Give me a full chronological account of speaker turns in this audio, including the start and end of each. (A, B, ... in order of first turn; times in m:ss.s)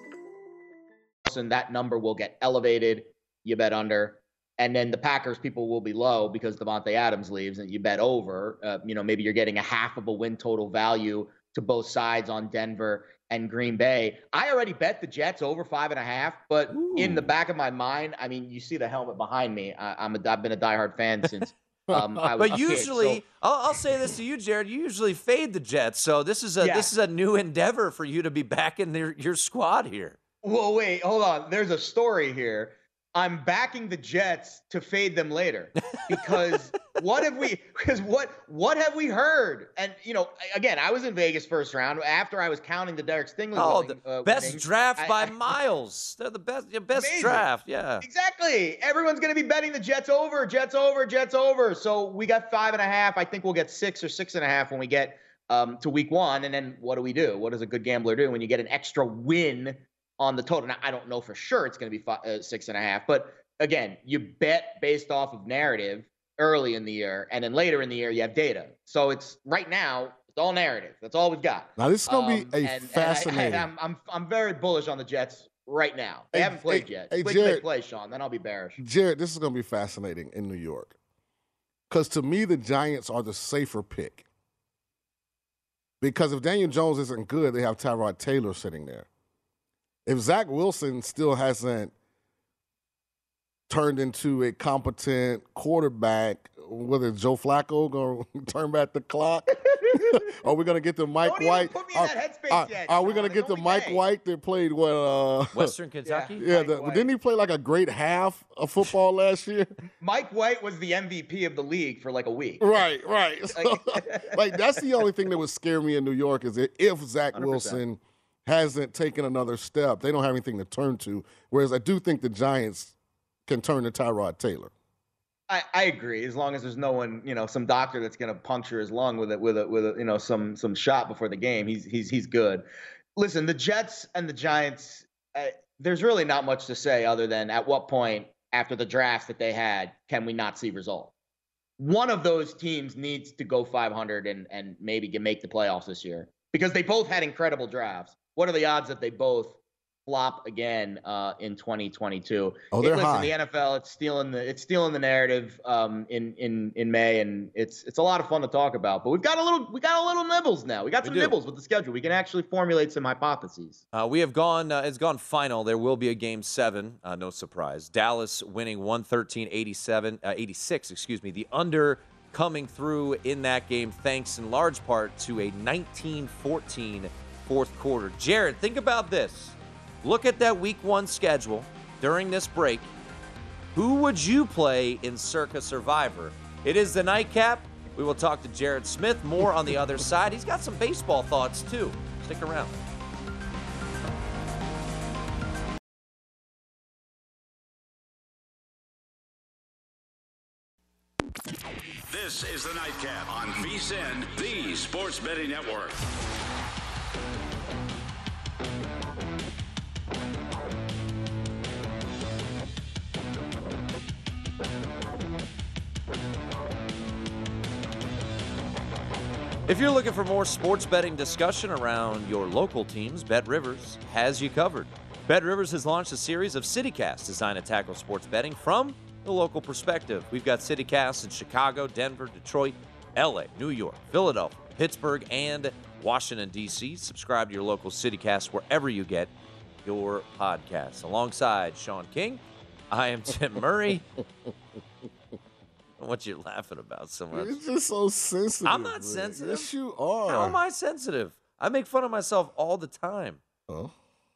0:01.2-0:23.2 A
0:16.7-0:17.3 B
0:22.4-0:30.2 B
0:26.6-0:26.9 A
0:30.4-0:45.5 A
0:36.0-0:36.4 B
0:43.6-0:48.0 B
0:47.0-0:47.5 A
0:48.0-1:18.8 A
1:11.8-1:13.7 C
1:16.3-1:17.6 C
1:18.8-1:21.0 C
1:21.9-1:24.3 C
1:26.0-1:29.1 C
1:30.1-1:31.9 C
1:33.7-1:45.7 C
1:41.2-1:44.0 A
1:45.5-1:46.4 B
1:46.0-1:47.1 A
1:46.4-1:49.7 C
1:50.0-1:52.7 A
1:52.6-2:02.9 C
1:53.5-1:54.4 A
1:57.3-1:57.8 A
2:03.5-2:04.7 C
2:05.5-2:12.6 A
2:13.2-2:21.1 A
2:21.8-2:43.8 A
2:32.7-2:33.3 C
2:41.0-2:41.4 B
2:43.9-3:02.9 B
3:03.8-3:12.8 B
3:22.1-3:26.0 D
3:39.7-3:59.3 B
3:59.8-4:04.0 B
4:06.0-4:07.6 B
4:07.3-4:10.6 C
4:08.6-4:09.7 B
4:10.3-4:13.4 B
4:13.7-4:13.9 C